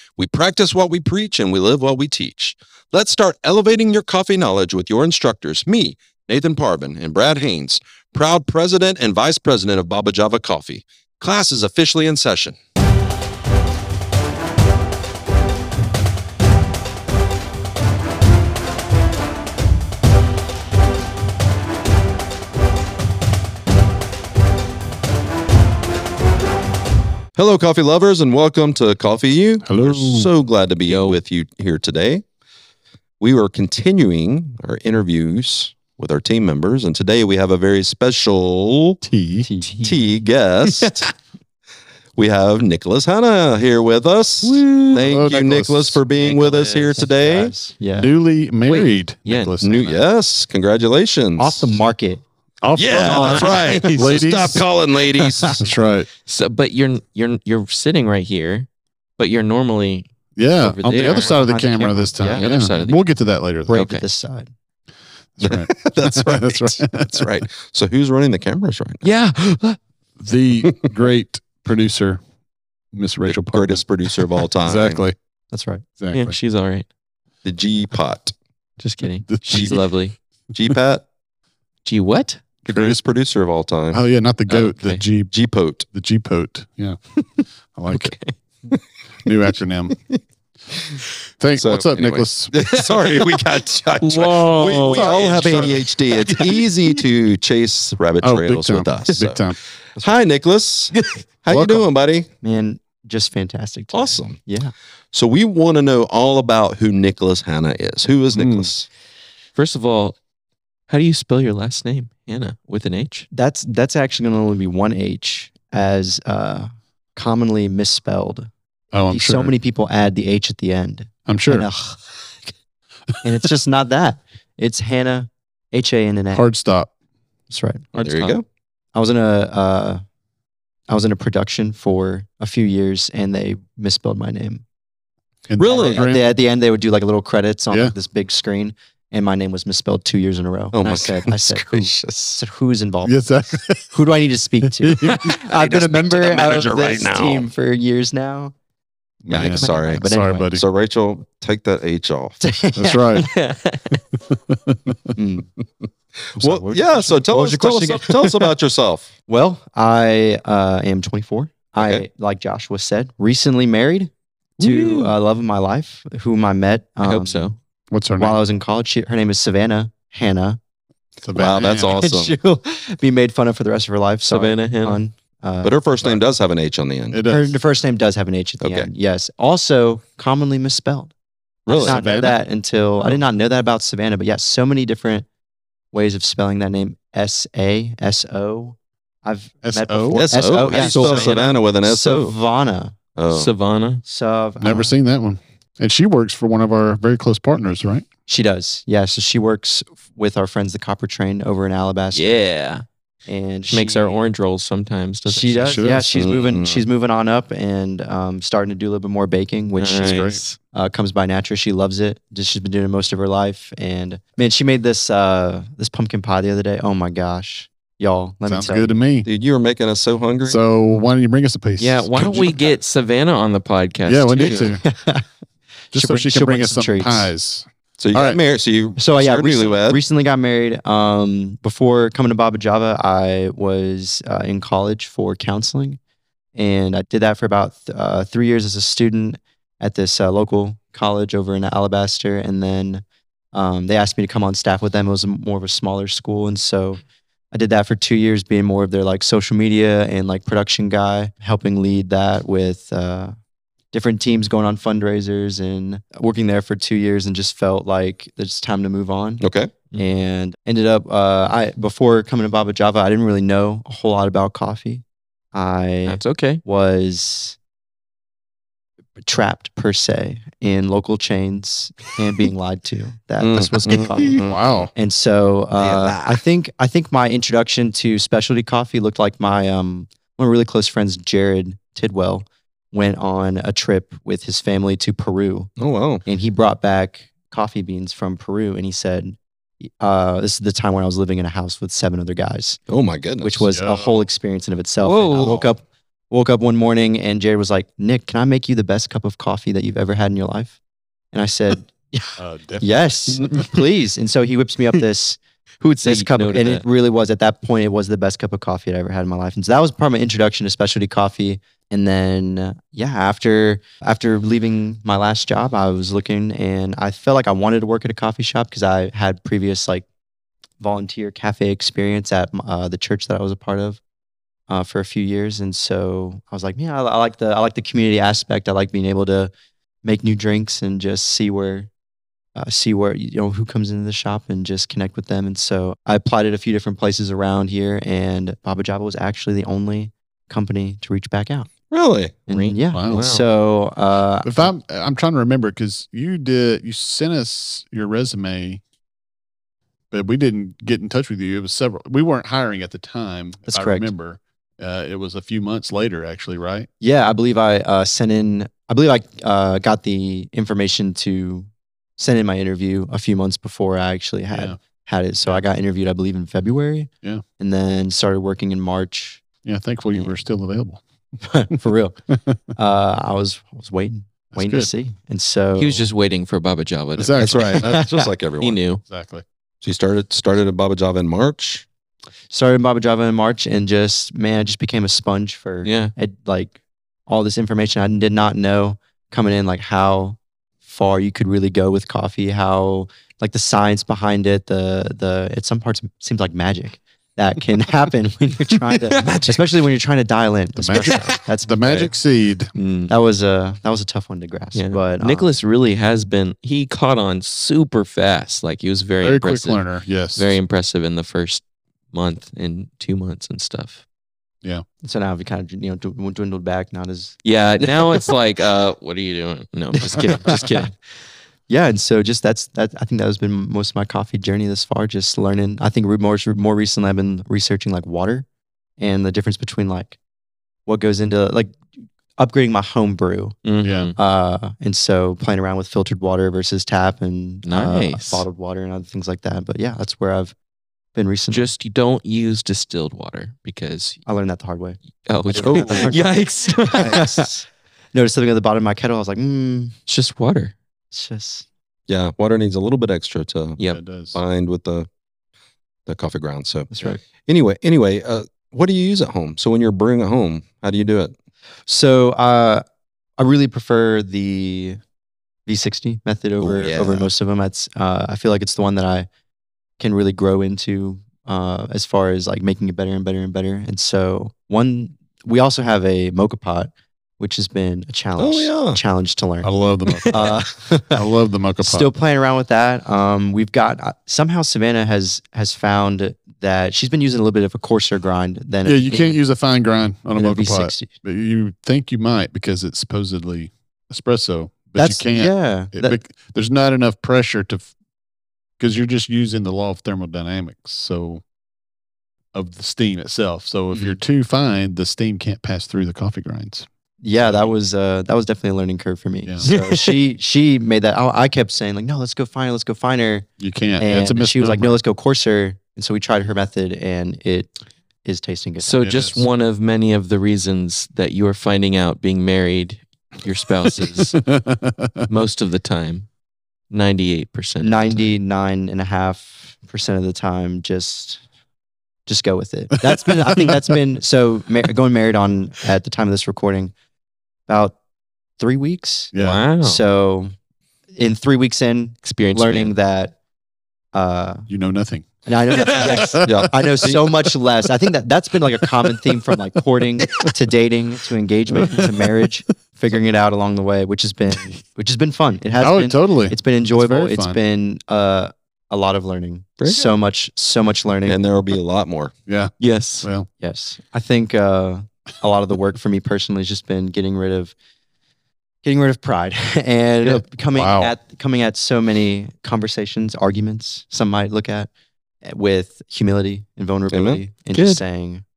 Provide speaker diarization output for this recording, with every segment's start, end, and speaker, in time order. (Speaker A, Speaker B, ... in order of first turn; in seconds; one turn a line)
Speaker A: 0.2-12.6
Speaker A: 27.4-32.2
Speaker B: 29.6-30.3
Speaker C: 30.8-31.2
Speaker A: 33.2-39.0
Speaker B: 39.0-39.5
Speaker D: 39.4-39.9
Speaker A: 39.8-41.0
Speaker C: 40.6-40.9
Speaker A: 42.1-47.5
Speaker C: 44.4-45.2
Speaker B: 45.0-46.0
Speaker C: 46.2-47.0
Speaker D: 46.9-48.1
Speaker B: 47.9-49.9
Speaker C: 48.6-50.0
Speaker A: 49.6-51.7
Speaker D: 51.4-52.2
Speaker B: 52.6-54.6
Speaker A: 52.7-55.6
Speaker D: 53.0-53.7
Speaker C: 53.1-53.8
Speaker D: 55.1-55.6
Speaker B: 55.6-56.1
Speaker C: 56.3-61.4
Speaker B: 60.4-63.7
Speaker D: 60.9-62.5
Speaker C: 62.2-63.0
Speaker D: 63.7-64.5
Speaker C: 63.7-64.0
Speaker B: 65.4-67.4
Speaker A: 65.4-69.0
Speaker C: 69.0-69.8
Speaker B: 70.2-72.2
Speaker B: 72.9-75.1
Speaker A: 73.2-75.0
Speaker D: 75.5-75.8
Speaker B: 76.0-76.4
Speaker C: 76.1-76.8
Speaker A: 77.4-78.3
Speaker C: 78.8-80.1
Speaker B: 79.2-79.8
Speaker A: 79.5-79.8
Speaker A: 80.5-81.0
Speaker C: 81.8-82.4
Speaker A: 82.7-84.0
Speaker B: 82.7-83.0
Speaker B: 83.9-85.3
Speaker C: 84.5-85.1
Speaker A: 85.2-85.8
Speaker B: 85.9-87.0
Speaker B: 87.7-88.1
Speaker C: 87.9-88.3
Speaker B: 89.2-90.0
Speaker B: 91.4-92.6
Speaker A: 91.5-99.5
Speaker C: 92.6-93.2
Speaker C: 94.0-96.6
Speaker D: 94.9-95.3
Speaker B: 98.2-99.6
Speaker A: 100.0-102.3
Speaker B: 101.5-101.8
Speaker D: 102.4-104.7
Speaker A: 103.9-104.4
Speaker A: 105.1-108.9
Speaker B: 108.3-108.7
Speaker C: 109.5-110.2
Speaker C: 110.9-113.3
Speaker D: 113.3-118.5
Speaker B: 118.9-119.5
Speaker D: 119.1-122.3
Speaker B: 121.3-121.7
Speaker D: 123.2-126.5
Speaker B: 126.3-126.9
Speaker D: 127.5-127.8
Speaker C: 127.9-128.4
Speaker A: 128.0-128.4
Speaker D: 128.9-130.0
Speaker D: 130.9-134.6
Speaker B: 135.5-136.3
Speaker A: 135.6-136.1
Speaker D: 135.8-143.3
Speaker A: 140.7-142.4
Speaker B: 143.0-143.9
Speaker D: 143.8-148.5
Speaker B: 144.6-145.3
Speaker A: 145.1-147.5
Speaker B: 149.2-150.6
Speaker D: 149.3-150.5
Speaker A: 149.3-152.4
Speaker D: 152.4-153.2
Speaker B: 152.8-153.3
Speaker C: 153.1-154.0
Speaker B: 154.3-155.0
Speaker D: 155.1-155.5
Speaker A: 156.3-159.1
Speaker B: 156.4-157.0
Speaker D: 156.6-158.5
Speaker D: 159.3-167.6
Speaker A: 161.8-162.0
Speaker C: 164.6-165.2
Speaker C: 167.0-167.6
Speaker B: 167.9-168.4
Speaker D: 168.2-170.6
Speaker B: 171.2-172.0
Speaker A: 171.3-172.3
Speaker D: 171.9-175.7
Speaker C: 174.2-175.0
Speaker A: 175.6-177.2
Speaker B: 177.1-177.5
Speaker D: 177.2-181.1
Speaker A: 178.6-178.9
Speaker A: 181.7-182.1
Speaker D: 181.7-185.2
Speaker B: 181.8-182.4
Speaker D: 185.9-192.9
Speaker B: 189.6-190.2
Speaker A: 190.1-192.3
Speaker C: 190.3-191.5
Speaker A: 193.2-193.5
Speaker C: 193.3-194.0
Speaker D: 194.0-194.9
Speaker B: 194.6-198.0
Speaker D: 198.3-202.4
Speaker C: 202.1-202.8
Speaker D: 203.3-204.2
Speaker C: 203.7-205.8
Speaker D: 205.2-219.0
Speaker B: 205.6-206.2
Speaker A: 206.1-206.8
Speaker C: 209.8-210.6
Speaker B: 210.0-210.4
Speaker B: 218.5-219.3
Speaker A: 219.2-220.6
Speaker B: 220.4-222.6
Speaker C: 221.8-224.7
Speaker B: 224.1-224.8
Speaker D: 224.8-225.2
Speaker D: 225.9-227.3
Speaker B: 225.9-228.4
Speaker A: 228.0-230.0
Speaker D: 228.9-236.0
Speaker D: 236.5-253.3
Speaker D: 253.9-267.6
Speaker A: 259.4-259.7
Speaker C: 266.1-266.6
Speaker D: 269.2-285.7
Speaker A: 273.4-274.9
Speaker B: 274.4-274.9
Speaker A: 275.8-276.4
Speaker A: 285.8-286.2
Speaker D: 286.2-292.8
Speaker A: 292.9-293.7
Speaker D: 293.4-300.8
Speaker B: 293.7-294.2
Speaker C: 295.0-295.6
Speaker A: 295.3-295.7
Speaker D: 301.3-320.0
Speaker B: 302.4-303.7
Speaker C: 306.0-306.8
Speaker D: 320.8-324.0
Speaker D: 324.7-329.5
Speaker D: 330.0-331.9
Speaker D: 332.5-341.7
Speaker A: 341.9-342.4
Speaker D: 342.5-344.7
Speaker C: 342.5-343.5
Speaker B: 342.9-343.2
Speaker B: 344.4-348.8
Speaker B: 350.1-356.9
Speaker D: 353.7-354.1
Speaker D: 357.0-369.4
Speaker B: 364.5-364.8
Speaker B: 369.6-371.0
Speaker D: 371.4-372.1
Speaker D: 372.7-376.1
Speaker B: 374.5-374.9
Speaker C: 375.7-377.8
Speaker B: 377.1-378.0
Speaker A: 377.4-378.8
Speaker D: 377.8-378.3
Speaker C: 378.6-379.0
Speaker B: 379.0-379.4
Speaker A: 379.8-381.8
Speaker D: 382.5-386.7
Speaker C: 385.8-386.1
Speaker D: 387.3-402.1
Speaker C: 398.7-399.6
Speaker B: 400.8-402.7
Speaker C: 401.1-401.4
Speaker C: 402.8-403.1
Speaker D: 403.1-405.5
Speaker C: 404.7-414.0
Speaker B: 409.2-410.6
Speaker D: 415.0-418.3
Speaker C: 417.4-420.9
Speaker D: 420.1-420.9
Speaker D: 421.7-428.4
Speaker D: 429.0-430.2
Speaker D: 430.9-431.8
Speaker D: 432.4-433.6
Speaker C: 433.6-434.1
Speaker B: 433.8-434.1
Speaker D: 434.1-440.5
Speaker C: 437.6-438.4
Speaker D: 441.1-441.7
Speaker C: 441.5-444.2
Speaker D: 444.2-445.0
Speaker C: 445.3-447.5
Speaker D: 445.5-449.9
Speaker B: 445.7-446.1
Speaker C: 450.1-450.7
Speaker D: 451.1-451.6
Speaker A: 452.1-453.8
Speaker B: 453.9-454.4
Speaker A: 454.3-455.1
Speaker A: 456.1-461.3
Speaker D: 456.9-457.2
Speaker D: 461.9-462.8
Speaker D: 463.4-465.0
Speaker D: 465.6-469.3
Speaker A: 466.6-467.3
Speaker D: 470.0-479.7
Speaker A: 478.4-479.0
Speaker B: 479.6-482.1
Speaker D: 480.3-481.2
Speaker D: 481.8-489.4
Speaker B: 488.8-497.9
Speaker D: 490.3-491.1
Speaker D: 494.9-496.2
Speaker B: 498.8-501.4
Speaker B: 502.5-506.9
Speaker D: 507.2-517.7
Speaker B: 507.4-507.7
Speaker C: 509.6-510.2
Speaker B: 513.6-515.0
Speaker D: 518.2-519.0
Speaker C: 518.8-524.4
Speaker B: 519.0-519.5
Speaker B: 524.0-525.3
Speaker C: 525.3-526.3
Speaker C: 526.9-528.3
Speaker D: 527.8-531.4
Speaker D: 532.2-536.9
Speaker B: 533.1-533.7
Speaker D: 537.7-537.9
Speaker D: 538.6-539.3
Speaker B: 539.3-539.6
Speaker C: 539.4-540.0
Speaker D: 539.8-540.5
Speaker D: 541.1-543.3
Speaker C: 542.2-542.9
Speaker D: 544.1-544.7
Speaker B: 544.7-545.2
Speaker D: 545.5-561.4
Speaker C: 545.8-546.2
Speaker B: 545.9-546.5
Speaker A: 546.4-547.2
Speaker B: 555.8-557.6
Speaker A: 559.8-560.1
Speaker A: 561.2-562.3
Speaker B: 562.5-563.5
Speaker C: 562.8-563.3
Speaker D: 563.6-567.7
Speaker D: 568.8-574.9
Speaker B: 570.7-571.1
Speaker D: 575.4-578.4
Speaker A: 577.1-577.5
Speaker C: 577.7-578.0